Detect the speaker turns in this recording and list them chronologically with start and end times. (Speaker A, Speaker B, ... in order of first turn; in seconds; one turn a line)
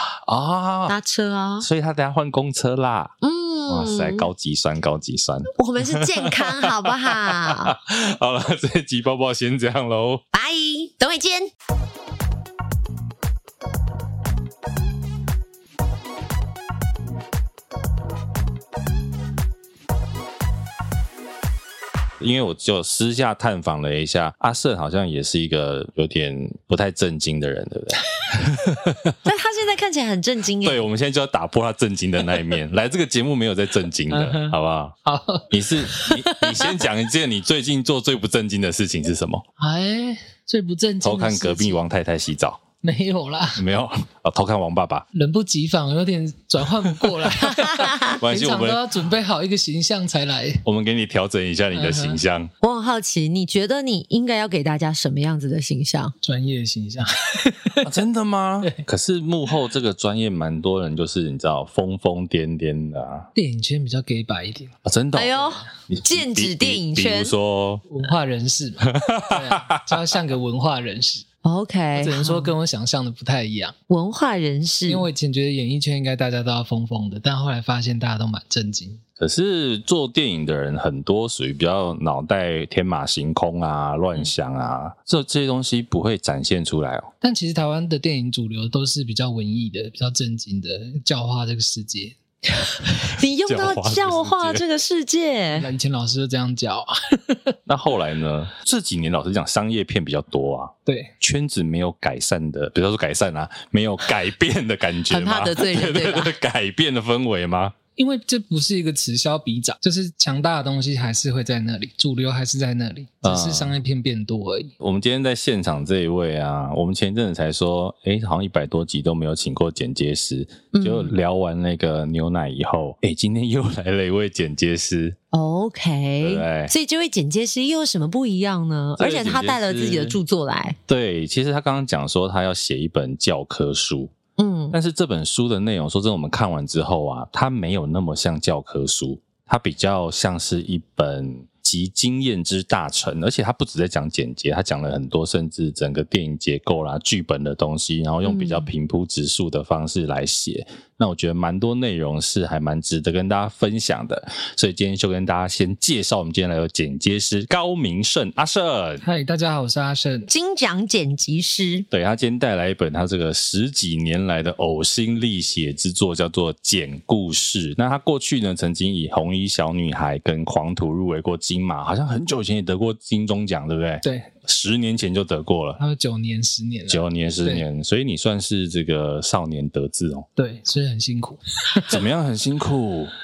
Speaker A: 0.3-0.9
Speaker B: 0.9-1.7
Speaker A: 1.6-3.1
Speaker B: 3.2-4.3
Speaker A: 3.7-10.2
Speaker B: 5.6-7.8
Speaker B: 10.3-11.5
Speaker A: 22.2-29.2
Speaker B: 29.2-30.9
Speaker A: 30.6-35.0
Speaker C: 34.1-35.5
Speaker A: 35.5-39.5
Speaker C: 39.6-41.8
Speaker A: 41.0-42.6
Speaker C: 42.8-43.6
Speaker A: 43.6-45.1
Speaker C: 45.1-50.6
Speaker B: 47.5-48.2
Speaker A: 48.1-48.8
Speaker A: 50.6-52.5
Speaker C: 51.7-52.2
Speaker B: 52.6-56.1
Speaker C: 56.2-57.9
Speaker A: 57.8-63.3
Speaker C: 63.4-64.8
Speaker A: 64.8-67.9
Speaker B: 65.1-67.3
Speaker C: 67.9-71.2
Speaker A: 68.8-69.9
Speaker B: 71.4-72.5
Speaker C: 72.0-73.8
Speaker B: 73.9-75.1
Speaker C: 74.9-79.0
Speaker A: 79.2-87.1
Speaker C: 87.2-92.2
Speaker B: 92.6-95.7
Speaker A: 93.5-94.6
Speaker C: 95.5-97.5
Speaker A: 97.7-107.8
Speaker C: 100.9-101.1
Speaker B: 105.1-106.3
Speaker C: 108.0-114.7
Speaker A: 113.2-113.8
Speaker A: 114.8-125.2
Speaker B: 120.7-121.1
Speaker B: 125.3-130.8
Speaker A: 126.2-126.7
Speaker A: 129.0-130.2
Speaker A: 130.9-134.1
Speaker B: 134.4-134.8
Speaker A: 134.7-159.0
Speaker B: 148.2-148.7
Speaker C: 159.0-160.3
Speaker B: 160.3-161.9
Speaker A: 161.9-175.8
Speaker C: 174.0-174.3
Speaker C: 175.8-177.7
Speaker A: 176.9-180.3
Speaker C: 180.4-182.0
Speaker A: 181.9-183.1